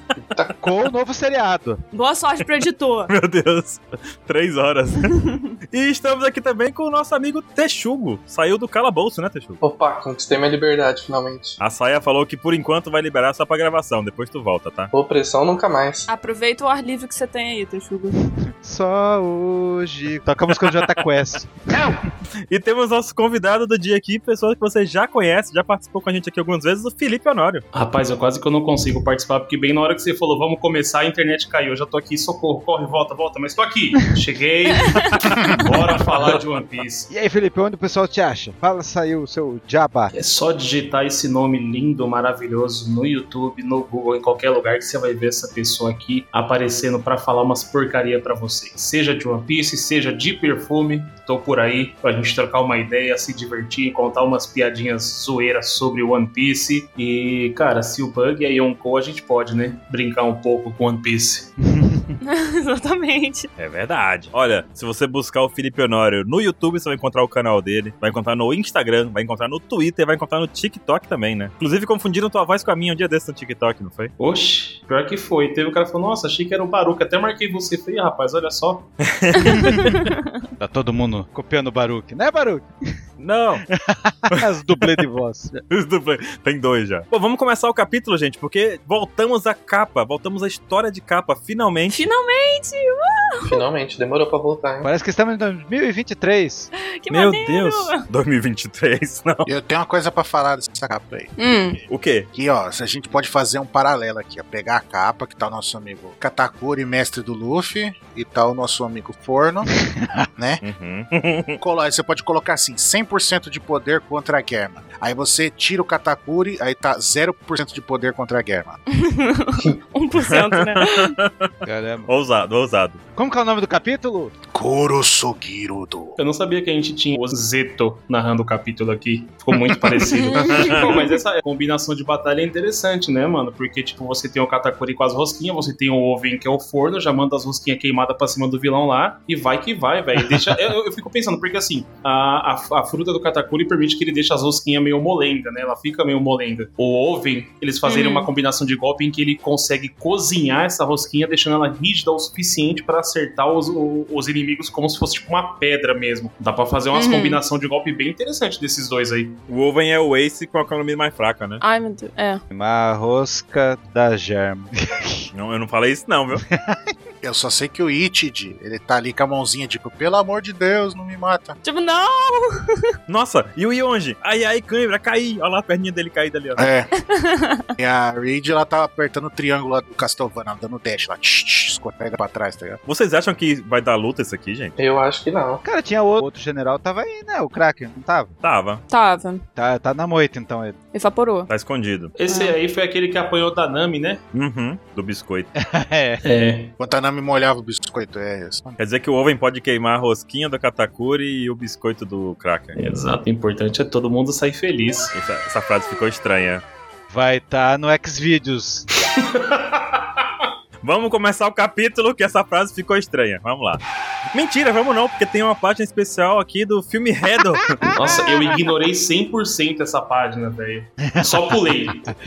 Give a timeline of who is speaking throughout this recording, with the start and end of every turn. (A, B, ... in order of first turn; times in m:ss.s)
0:00.2-0:00.6 A
0:00.6-0:01.8 B
0:01.9-0:03.1 C
0:03.1-0:05.2 D
0:05.0-0:05.5 C
0:05.7-0:09.6 D
0:09.6-0:11.6 A
0:11.6-0:14.9 D
0:14.9-0:16.1 A
0:16.1-0:18.2 C
0:18.4-0:21.8 B
0:22.5-0:27.6 D
0:27.7-0:37.1 E
0:34.7-0:35.2 C
0:37.1-0:40.1 B
0:40.1-1:01.5 E
1:01.6-1:02.2 B
1:02.2-1:03.5 C
1:03.6-1:14.1 D
1:14.2-1:18.9 E
1:19.0-1:20.1 D
1:19.5-1:20.3 C
1:20.6-1:22.7 B
1:23.2-1:23.6 D
1:23.6-1:25.6 B
1:25.7-1:32.0 D
1:31.9-1:33.6 C
1:33.5-1:34.9 A
1:34.8-1:36.7 B
1:36.8-1:38.0 C
1:37.1-1:39.5 D
1:39.5-1:41.3 F
1:41.4-1:41.8 C
1:41.9-1:42.3 D
1:42.3-1:49.7 F
1:50.4-1:50.6 F
1:50.6-1:51.6 D
1:51.6-1:58.8 F
1:58.9-2:01.2 C
2:00.2-2:01.5 D
2:01.6-2:02.1 B
2:02.1-2:03.0 D
2:03.2-2:04.3 B
2:04.5-2:06.2 F
2:06.2-2:39.4 E
2:10.0-2:11.2 C
2:10.4-2:10.9 D
2:27.8-2:28.3 C
2:36.9-2:37.4 C
2:39.5-2:41.6 D
2:41.6-2:42.4 C
2:42.5-2:45.3 B
2:45.3-2:46.4 D
2:46.4-2:46.9 B
2:47.2-2:51.6 F
2:51.6-2:52.8 C
2:53.1-2:56.6 D
2:56.6-2:56.9 F
2:57.0-2:57.7 C
2:57.8-3:02.8 F
3:02.8-3:04.7 D
3:04.8-3:05.6 A
3:05.6-3:08.3 B
3:08.4-3:08.8 D
3:08.9-3:09.4 C
3:09.6-3:10.8 B
3:10.9-3:11.5 C
3:11.5-3:12.1 D
3:12.2-3:14.2 E
3:12.3-3:12.6 C
3:14.3-3:15.5 D
3:15.6-3:16.2 B
3:16.2-3:16.7 E
3:16.8-3:18.8 F
3:18.8-3:22.8 D
3:22.8-3:25.1 E
3:25.1-3:26.6 D
3:27.1-3:28.9 B
3:29.2-3:30.2 E
3:30.8-3:33.8 D
3:34.3-3:37.9 D
3:37.8-3:38.5 B
3:37.9-3:42.1 E
3:41.1-3:41.9 B